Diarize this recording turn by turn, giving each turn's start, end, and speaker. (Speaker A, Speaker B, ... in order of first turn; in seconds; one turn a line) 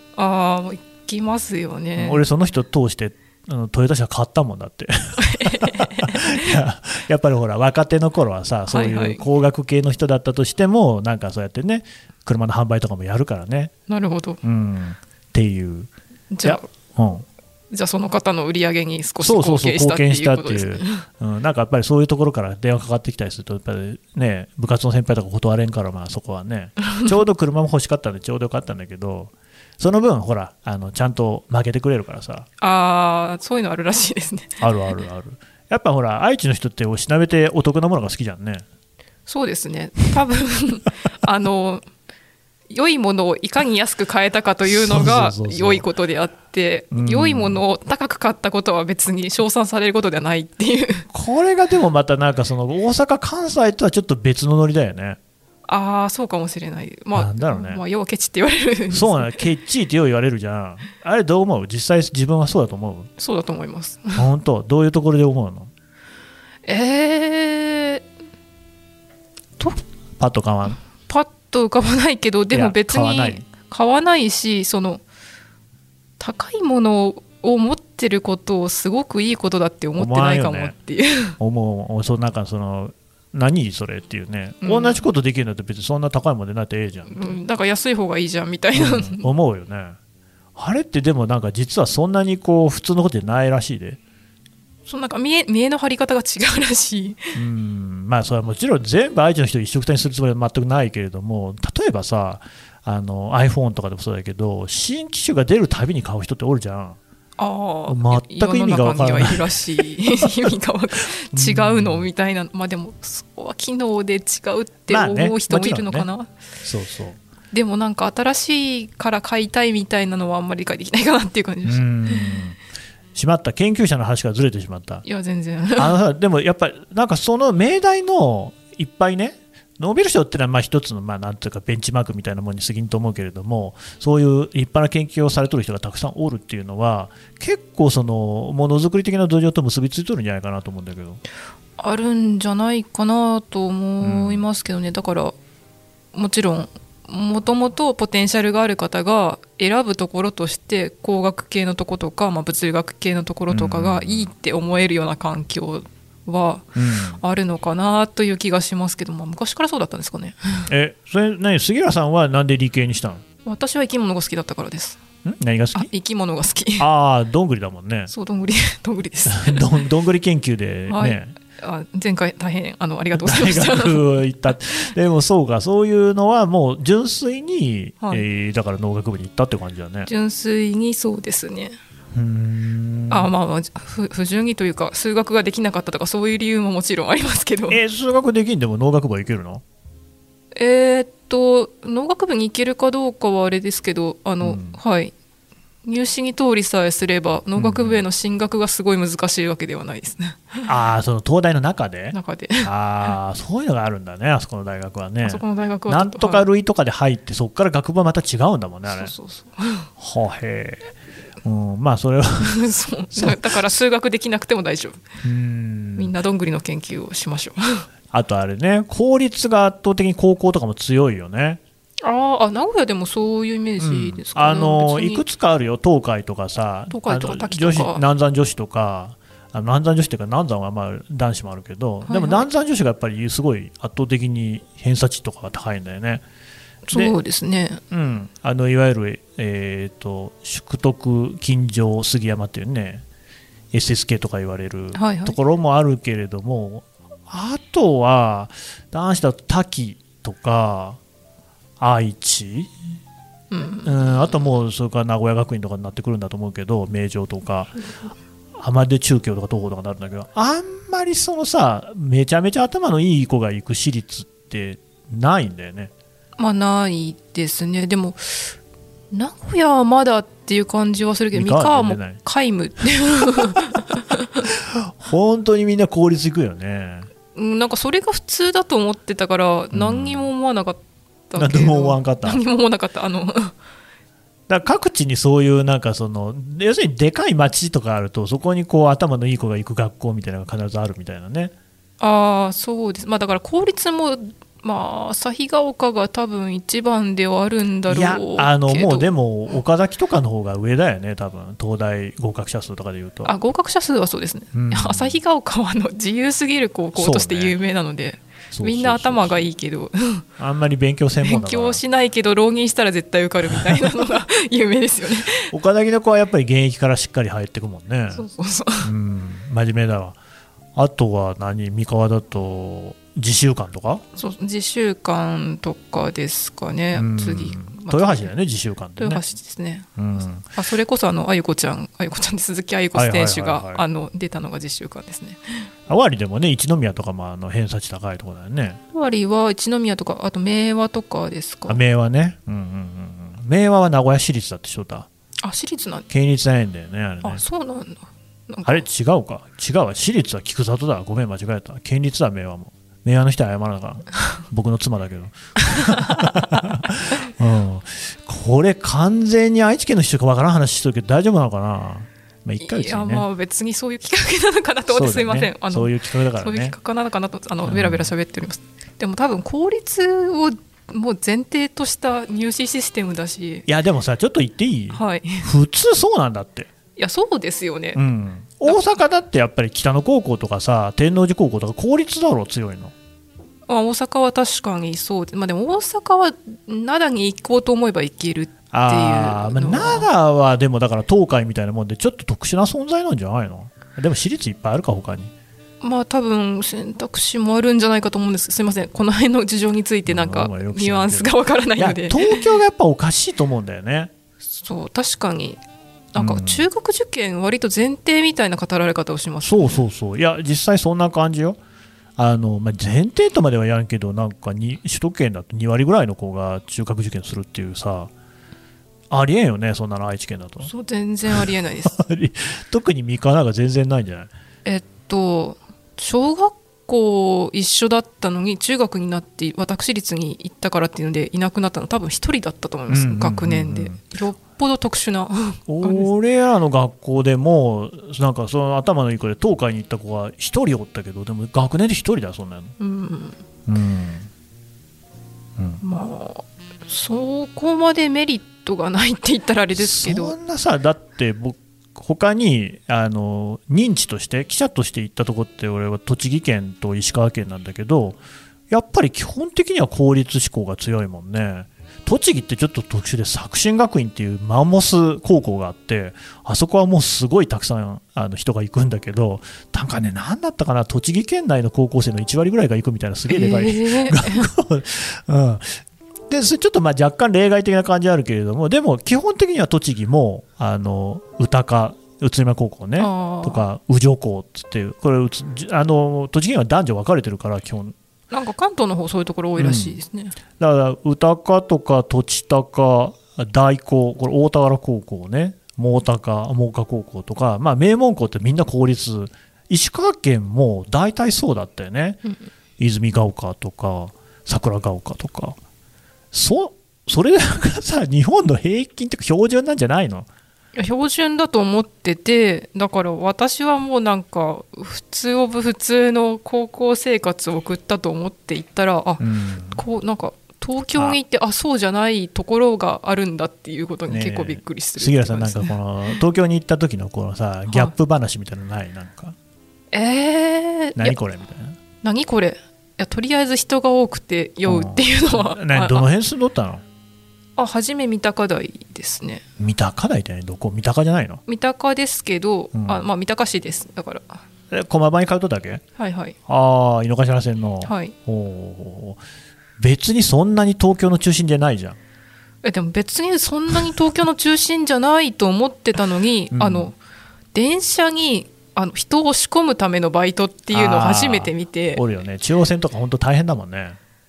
Speaker A: 0.2-2.2
Speaker B: 2.0-13.7
Speaker A: 5.2-6.6
Speaker A: 8.7-9.2
Speaker A: 13.9-14.4
Speaker B: 14.4-15.9
Speaker A: 16.3-16.7
Speaker B: 16.4-17.3
Speaker A: 17.7-21.1
Speaker B: 19.2-32.5
Speaker A: 32.6-34.6
Speaker B: 34.6-38.6
Speaker A: 39.3-41.8
Speaker A: 42.7-51.1
Speaker B: 44.6-45.9
Speaker B: 46.9-47.6
Speaker B: 51.1-55.2
Speaker A: 55.7-59.4
Speaker B: 57.1-57.8
Speaker B: 58.9-63.1
Speaker A: 63.2-64.2
Speaker B: 64.2-65.7
Speaker A: 66.7-68.0
Speaker B: 70.2-70.8
Speaker A: 71.1-75.0
Speaker B: 72.5-73.5
Speaker A: 76.2-81.4
Speaker B: 80.0-80.7
Speaker B: 81.4-87.4
Speaker A: 84.6-85.0
Speaker A: 87.1-89.3
Speaker B: 88.7-90.0
Speaker B: 90.6-94.0
Speaker A: 94.9-97.3
Speaker B: 97.3-107.0
Speaker A: 107.4-116.3
Speaker B: 107.9-109.6
Speaker B: 111.3-112.1
Speaker B: 114.9-116.1
Speaker B: 116.6-117.2
Speaker A: 117.5-122.3
Speaker B: 121.7-122.6
Speaker B: 123.2-125.0
Speaker A: 125.0-126.0
Speaker B: 125.8-141.2
Speaker A: 141.8-145.4
Speaker B: 144.0-144.4
Speaker A: 146.1-160.7
Speaker B: 153.5-154.3
Speaker B: 156.8-157.2
Speaker B: 160.7-163.2
Speaker A: 163.4-165.0
Speaker B: 165.2-165.9
Speaker A: 165.8-166.9
Speaker B: 166.8-168.1
Speaker A: 168.1-169.7
Speaker B: 169.3-171.3
Speaker A: 170.9-174.1
Speaker B: 173.2-180.1
Speaker A: 180.1-181.8
Speaker B: 182.1-183.3
Speaker A: 183.1-187.8
Speaker B: 187.7-189.6
Speaker A: 190.6-195.1
Speaker B: 194.4-194.8
Speaker A: 195.8-200.7
Speaker B: 197.6-198.0
Speaker B: 200.7-209.1
Speaker A: 202.1-203.1
Speaker A: 205.2-206.5
Speaker A: 208.9-209.9
Speaker B: 210.0-210.9
Speaker B: 211.4-212.6
Speaker A: 212.4-215.0
Speaker B: 213.1-213.6
Speaker B: 215.2-216.1
Speaker A: 216.0-217.8
Speaker B: 218.1-221.6
Speaker A: 222.0-225.2
Speaker B: 223.8-236.2
Speaker A: 226.9-228.0
Speaker A: 232.1-232.5
Speaker A: 236.9-237.8
Speaker B: 237.9-243.0
Speaker B: 243.7-251.0
Speaker A: 244.9-245.4
Speaker B: 251.8-252.7
Speaker A: 253.5-254.3
Speaker B: 253.8-257.7
Speaker B: 258.6-265.9
Speaker A: 266.4-268.6
Speaker A: 269.1-274.5
Speaker B: 271.3-272.2
Speaker B: 273.4-273.9
Speaker B: 274.5-277.1
Speaker A: 277.3-283.5
Speaker B: 279.7-280.3
Speaker B: 281.4-282.4
Speaker B: 284.5-291.5
Speaker A: 292.0-299.1
Speaker B: 297.9-303.3
Speaker A: 303.2-310.3
Speaker B: 304.5-305.2
Speaker B: 306.9-307.6
Speaker B: 308.5-309.5
Speaker B: 310.4-311.8
Speaker A: 311.2-315.5
Speaker B: 313.5-314.1
Speaker B: 315.4-318.2
Speaker A: 318.1-318.9
Speaker B: 318.8-320.2
Speaker B: 320.8-324.0
Speaker A: 324.2-328.3
Speaker B: 326.9-329.2
Speaker A: 329.0-329.9
Speaker B: 330.0-330.5
Speaker A: 330.5-335.7
Speaker B: 332.9-333.8
Speaker B: 335.9-338.8
Speaker A: 338.9-341.8
Speaker B: 341.7-345.1
Speaker A: 345.4-346.1
Speaker B: 346.1-347.4
Speaker A: 347.2-348.8
Speaker B: 348.6-363.2
Speaker A: 355.8-356.2
Speaker A: 362.6-373.7
Speaker B: 364.9-366.8
Speaker B: 367.7-368.1
Speaker B: 373.7-376.7
Speaker A: 374.9-375.5
Speaker A: 377.0-378.0
Speaker B: 377.9-382.9
Speaker A: 383.7-390.1
Speaker B: 388.7-395.3
Speaker A: 395.8-402.5
Speaker B: 400.1-404.1
Speaker A: 404.5-405.6
Speaker A: 406.1-409.8
Speaker B: 406.2-406.7
Speaker B: 409.4-411.6
Speaker B: 412.2-418.1
Speaker B: 419.1-420.7
Speaker A: 420.6-421.9
Speaker B: 421.3-424.3
Speaker A: 424.6-436.1
Speaker B: 432.9-434.0
Speaker B: 435.7-442.8
Speaker A: 442.8-443.4
Speaker B: 443.7-444.3
Speaker A: 445.8-450.4
Speaker B: 449.8-458.2
Speaker B: 458.7-487.9
Speaker A: 473.3-474.5
Speaker A: 483.0-483.6
Speaker A: 488.3-490.4
Speaker B: 489.6-490.0
Speaker B: 490.6-502.2
Speaker B: 502.8-505.6
Speaker B: 506.3-510.3
Speaker A: 510.8-525.7
Speaker B: 519.2-519.8
Speaker B: 524.1-529.4
Speaker A: 529.9-531.2
Speaker B: 531.0-531.8
Speaker A: 532.0-536.1
Speaker B: 534.6-536.8
Speaker A: 537.6-539.4
Speaker B: 539.6-541.4
Speaker A: 541.5-544.4
Speaker B: 542.7-543.1
Speaker B: 544.7-545.8
Speaker A: 546.0-546.4
Speaker B: 546.5-549.2
Speaker A: 547.8-548.1
Speaker B: 549.8-552.0
Speaker A: 552.6-557.0
Speaker B: 556.5-556.9
Speaker A: 557.5-562.0
Speaker B: 560.7-564.0